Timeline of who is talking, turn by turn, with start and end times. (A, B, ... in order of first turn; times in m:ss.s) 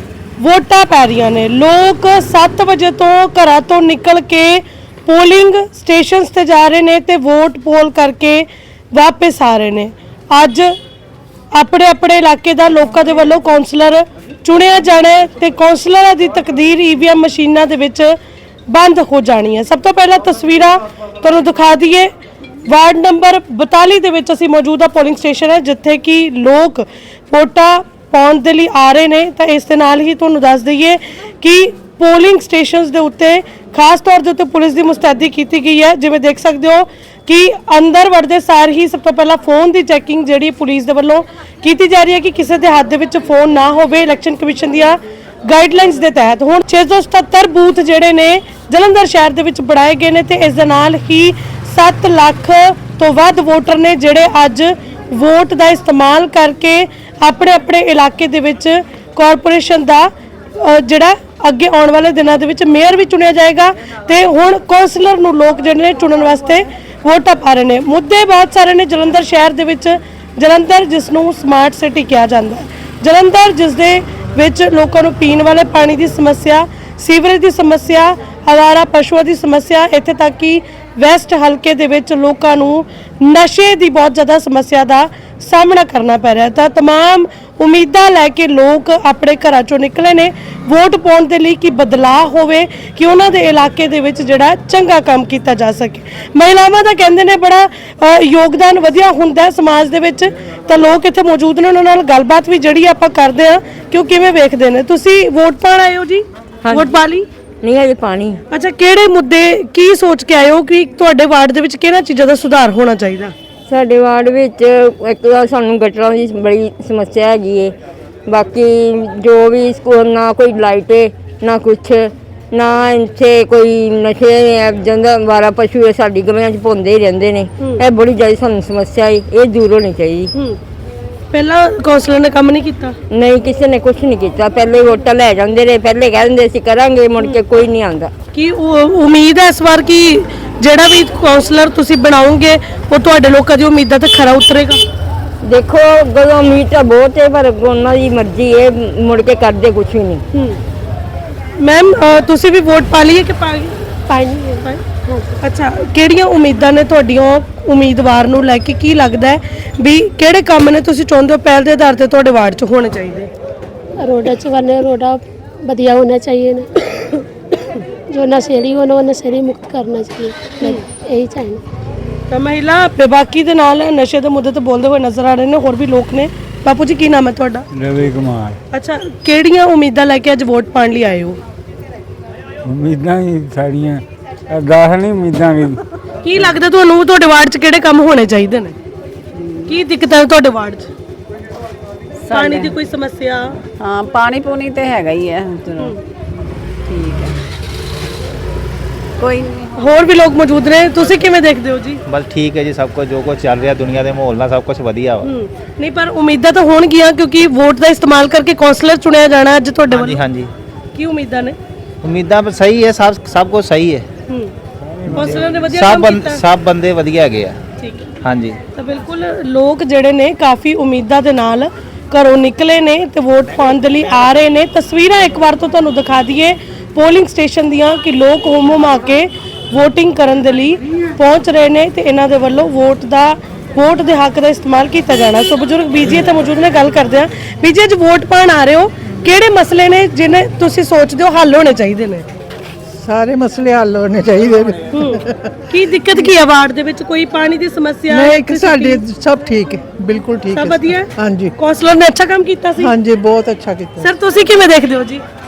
0:00.4-0:10.7 A
0:11.5-0:18.1 A
0:18.7-0:22.1 A
0:22.7-1:47.3 A
1:46.6-1:46.9 B
1:47.6-1:48.4 B
1:48.5-1:53.3 A
1:53.7-1:57.8 B
1:58.3-2:10.3 B
2:11.3-2:13.0 A
2:13.1-2:18.1 B
2:18.3-2:24.8 A
2:25.4-2:30.2 B
2:30.3-2:30.6 A
2:31.6-2:43.3 A
2:44.0-2:46.8 C
2:48.1-2:51.6 C
2:52.3-2:57.7 A
2:57.7-2:58.6 D
2:58.7-3:01.4 A
3:02.6-3:05.8 D
3:06.2-3:08.8 A
3:09.7-3:10.9 A
3:12.3-3:12.7 E
3:12.3-3:13.6 A
3:13.8-3:15.9 E
3:16.9-3:17.4 E
3:19.2-3:19.7 E
3:19.8-3:22.0 A
3:22.1-3:25.2 F
3:25.2-3:30.2 A
3:29.9-3:30.5 F
3:31.0-3:31.6 A
3:32.0-3:34.1 F
3:35.1-3:35.6 D
3:35.1-3:36.4 A
3:35.8-3:37.6 F
3:37.8-3:38.1 A
3:38.2-3:38.6 F
3:38.7-4:02.3 A
4:03.0-4:05.2 G
4:04.9-4:09.0 A
4:08.1-4:11.5 G
4:10.5-4:13.0 A
4:12.8-4:14.1 G
4:14.0-4:15.2 A